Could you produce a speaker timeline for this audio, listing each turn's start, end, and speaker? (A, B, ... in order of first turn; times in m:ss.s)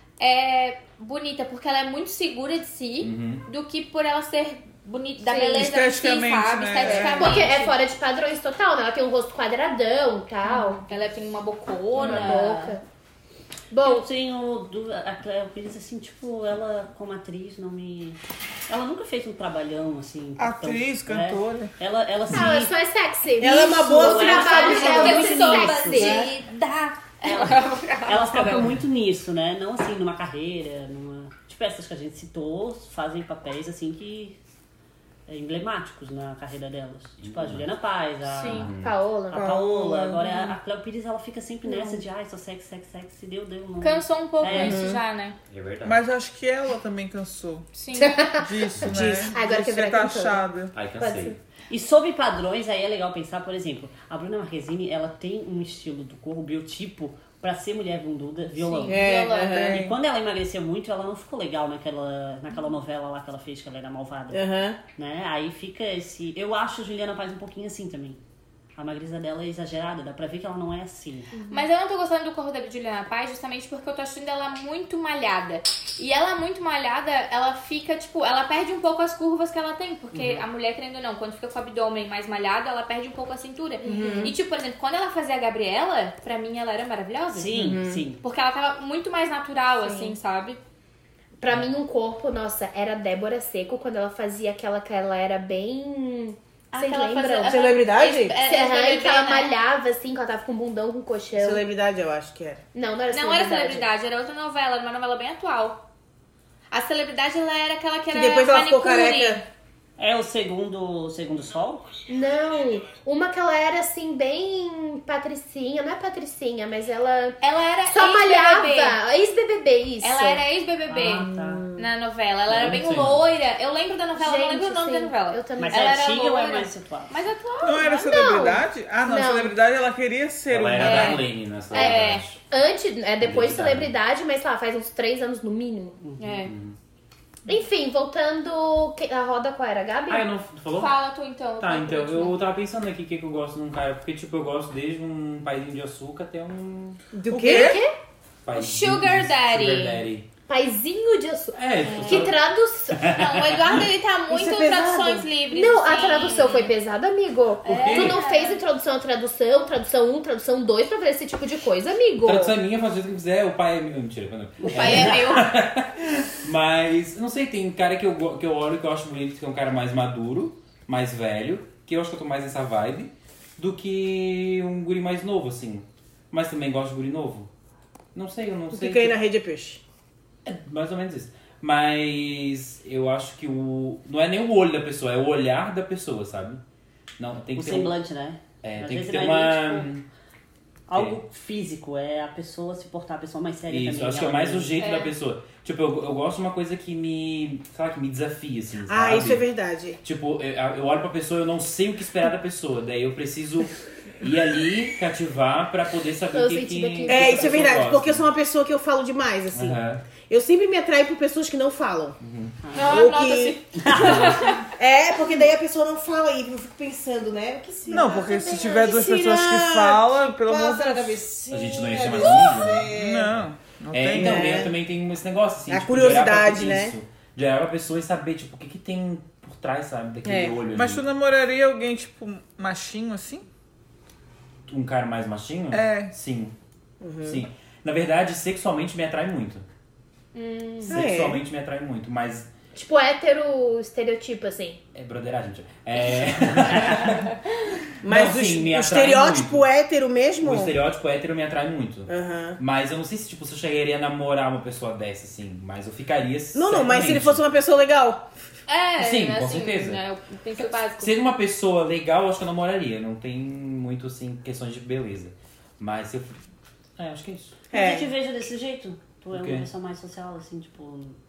0:00.2-0:07.8 A
0:03.0-0:03.4 B
0:05.3-0:05.6 C
0:05.5-0:07.5 D
0:06.8-0:10.8 C
0:10.5-0:12.8 A
0:12.0-0:12.4 B
0:12.0-0:12.8 C
0:13.7-0:14.1 C
0:13.8-0:22.7 E
0:20.4-0:21.8 D
0:22.3-0:26.2 C
0:23.4-0:25.3 F
0:23.9-0:26.2 E
0:24.0-0:28.7 A
0:27.2-0:34.4 E
0:35.3-0:38.7 E
0:37.2-0:37.7 B
0:38.3-0:38.7 A
0:38.5-0:39.0 B
0:38.6-0:39.5 C
0:39.3-0:44.9 E
0:39.3-0:40.5 D
0:41.7-0:42.0 C
0:43.8-0:45.4 A
0:44.6-0:45.0 F
0:45.5-0:46.0 B
0:45.8-0:47.7 D
0:47.7-0:48.2 A
0:48.0-0:50.5 C
0:48.3-0:50.7 D
0:48.8-0:49.4 F
0:50.7-0:51.4 B
0:51.0-0:51.4 C
0:51.7-1:08.2 E
0:58.6-0:59.6 A
0:58.9-0:59.9 F
0:59.4-0:59.9 D
1:04.3-1:04.8 F
1:08.8-1:11.3 E
1:11.5-1:30.6 A
1:20.1-1:20.4 E
1:23.8-1:24.3 C
1:23.8-1:24.4 F
1:27.3-1:28.2 E
1:27.6-1:28.0 F
1:29.8-1:30.2 C
1:31.4-1:37.6 C
1:36.7-1:39.6 A
1:37.4-1:38.4 F
1:38.4-1:41.6 C
1:41.4-1:42.6 F
1:42.7-1:43.9 C
1:43.1-1:45.8 A
1:46.7-1:49.4 A
1:48.1-1:49.4 F
1:50.0-1:51.9 E
1:52.1-2:00.4 C
1:57.4-1:59.0 A
2:00.0-2:08.0 A
2:00.9-2:01.7 E
2:02.5-2:03.2 B
2:04.2-2:06.0 C
2:05.6-2:07.2 E
2:07.6-2:11.2 D
2:07.8-2:09.6 C
2:10.5-2:12.4 B
2:10.8-2:12.2 A
2:11.7-2:16.0 C
2:13.2-2:13.9 B
2:16.0-2:16.4 E
2:16.2-2:16.5 A
2:16.5-2:16.8 B
2:17.5-2:20.3 C
2:20.1-2:21.0 B
2:20.7-2:22.4 A
2:21.6-2:27.0 B
2:27.2-2:27.8 F
2:27.3-2:27.8 D
2:27.3-2:27.9 C
2:28.4-2:30.3 B
2:28.5-2:30.0 A
2:30.5-2:33.2 C
2:31.6-2:32.4 B
2:31.8-2:32.3 A
2:32.9-2:33.7 B
2:33.1-2:36.7 A
2:34.3-2:35.3 F
2:35.5-2:42.6 C
2:37.6-2:38.6 A
2:37.7-2:38.2 B
2:42.2-2:57.5 B
2:44.6-2:45.5 A
2:44.7-2:45.0 E
2:58.2-2:59.2 B
2:58.7-2:59.8 F
3:00.4-3:06.6 B
3:07.2-3:08.0 B
3:07.6-3:09.9 E
3:08.6-3:10.0 B
3:10.9-3:14.8 E
3:13.7-3:19.4 B
3:14.8-3:15.1 A
3:18.9-3:20.0 F
3:20.0-3:28.2 B
3:26.3-3:27.9 C
3:27.1-3:32.2 F
3:29.5-3:30.0 B
3:32.2-3:32.6 B
3:32.6-3:33.0 E
3:32.7-3:34.6 A
3:32.8-3:33.6 F
3:33.8-3:34.6 E
3:34.0-3:34.3 B
3:34.8-3:43.4 F
3:37.9-3:41.2 D
3:41.5-3:43.4 B
3:42.9-3:44.6 D
3:43.9-3:51.0 B
3:44.1-3:44.8 F
3:45.7-3:47.0 F
3:50.2-3:50.6 F
3:50.7-3:53.4 D
3:54.7-3:56.6 B
3:55.7-3:56.1 D
3:57.0-3:57.4 F
3:57.2-3:59.6 B
4:00.3-4:01.0 A
4:00.8-4:02.5 B
4:00.9-4:01.4 F
4:02.7-4:04.8 C
4:05.0-4:07.4 B
4:08.0-4:10.8 F
4:08.0-4:09.7 B
4:10.4-4:17.4 B
4:12.1-4:12.6 F
4:16.5-4:18.2 F
4:18.7-4:21.1 A
4:19.0-4:20.0 B
4:20.7-4:26.4 B
4:27.0-4:27.6 B
4:27.7-4:31.2 E
4:27.7-4:28.1 F
4:29.3-4:29.7 B